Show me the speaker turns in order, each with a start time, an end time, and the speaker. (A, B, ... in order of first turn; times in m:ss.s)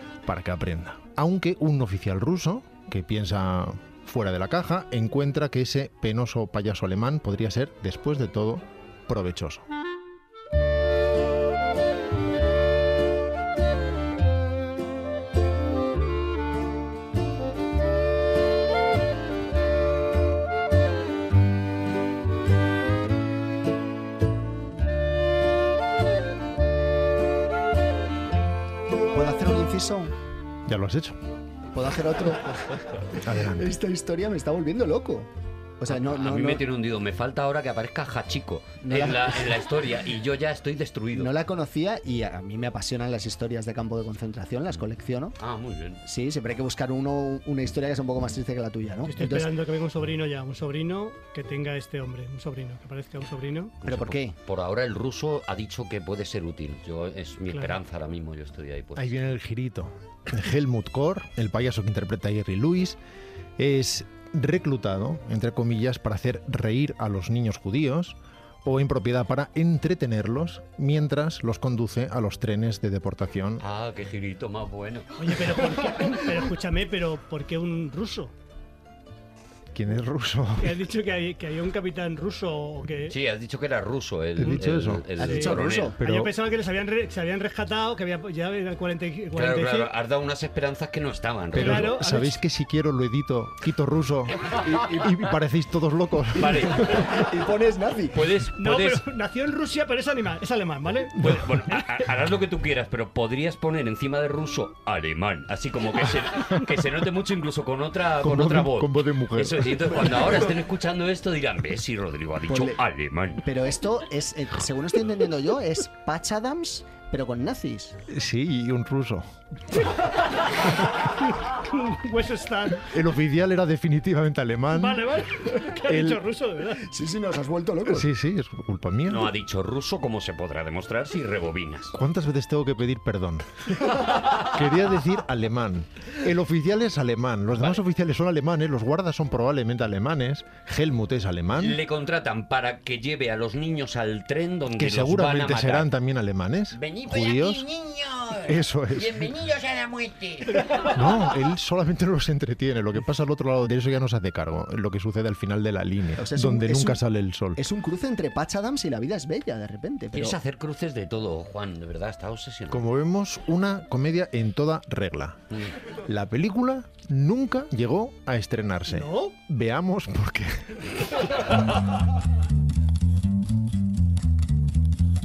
0:00.2-0:09.6 A
0:29.1-0:30.1 B
0:30.7-0:31.2 A
0:31.7-0:32.8 B
0:33.2-0:33.7 A
0:33.4-0:35.3 B
0:35.8-0:36.6 B
0:35.9-0:41.3 C
0:38.8-0:39.6 B
0:41.2-0:45.4 B
0:45.4-0:46.0 C
0:46.0-0:49.5 B
0:49.0-0:53.7 D
0:53.8-0:59.1 C
0:53.8-0:54.3 B
0:59.0-1:03.0 A
1:03.6-1:13.6 A
1:13.6-1:15.1 C
1:15.2-1:18.3 D
1:19.7-1:20.8 A
1:20.6-1:23.2 D
1:23.1-1:26.0 C
1:24.4-1:25.2 A
1:25.2-1:26.0 B
1:25.2-1:29.9 D
1:26.0-1:26.3 A
1:29.4-1:32.0 C
1:31.5-1:37.0 A
1:31.6-1:32.4 D
1:34.7-1:35.1 B
1:36.4-1:37.0 C
1:37.0-1:38.2 B
1:38.1-1:39.0 C
1:38.6-1:41.9 D
1:41.2-1:53.4 C
1:48.2-1:50.3 A
1:52.5-1:52.8 B
1:53.4-1:58.0 B
1:58.1-1:59.3 A
2:01.4-2:02.9 D
2:02.8-2:05.1 A
2:04.7-2:06.8 D
2:05.9-2:06.2 A
2:06.8-2:08.1 B
2:07.9-2:09.3 A
2:09.1-2:11.9 C
2:12.0-2:13.5 A
2:14.4-2:21.8 A
2:21.6-2:25.9 C
2:24.7-2:27.7 A
2:26.8-2:27.4 C
2:27.1-2:28.5 E
2:28.4-2:29.3 A
2:29.0-2:29.5 C
2:29.4-2:30.9 E
2:30.9-2:37.6 A
2:36.2-2:37.0 B
2:37.6-2:40.4 B
2:40.1-2:42.8 C
2:42.7-2:45.4 A
2:46.1-2:51.2 A
2:48.9-2:49.4 D